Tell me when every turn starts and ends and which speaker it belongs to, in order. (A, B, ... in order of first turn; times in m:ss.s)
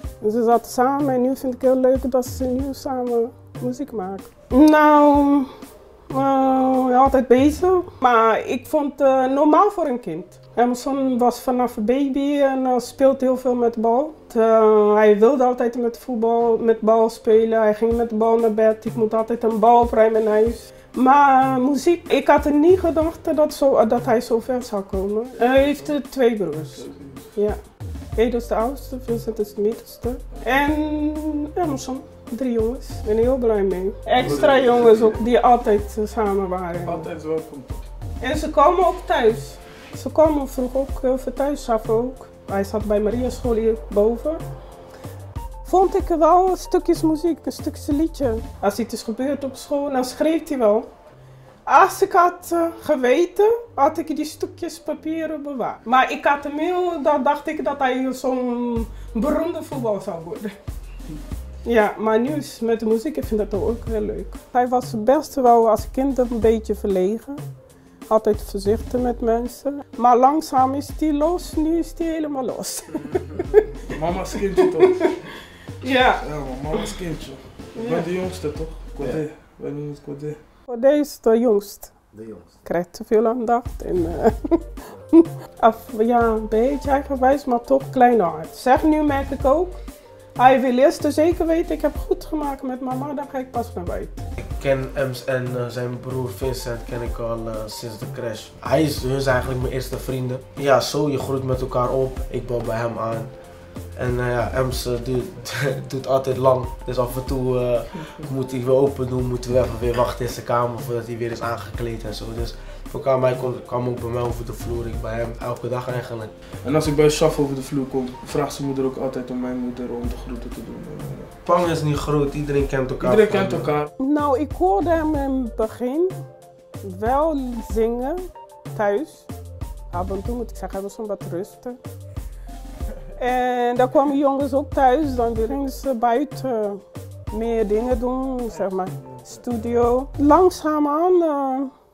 0:00.2-0:05.5 A
0:06.1-0:27.6 A
0:25.4-0:26.0 B
0:26.6-0:27.3 B
0:28.2-0:37.1 A
0:34.2-0:35.3 B
0:36.8-0:37.8 B
0:38.2-0:44.4 A
0:45.6-0:50.9 A
0:51.7-1:00.6 A
1:01.6-1:07.4 A
1:08.1-1:13.6 A
1:13.9-1:15.1 B
1:15.8-1:16.8 A
1:16.2-1:20.4 B
1:17.8-1:18.1 A
1:20.7-1:22.0 A
1:22.6-1:29.8 A
1:30.4-1:34.2 A
1:34.4-1:43.3 C
1:44.0-1:56.3 C
1:56.6-2:01.3 B
2:01.4-2:03.7 C
2:03.0-2:03.9 B
2:04.0-2:06.1 A
2:06.8-2:09.3 A
2:09.9-2:11.8 A
2:13.2-2:21.7 A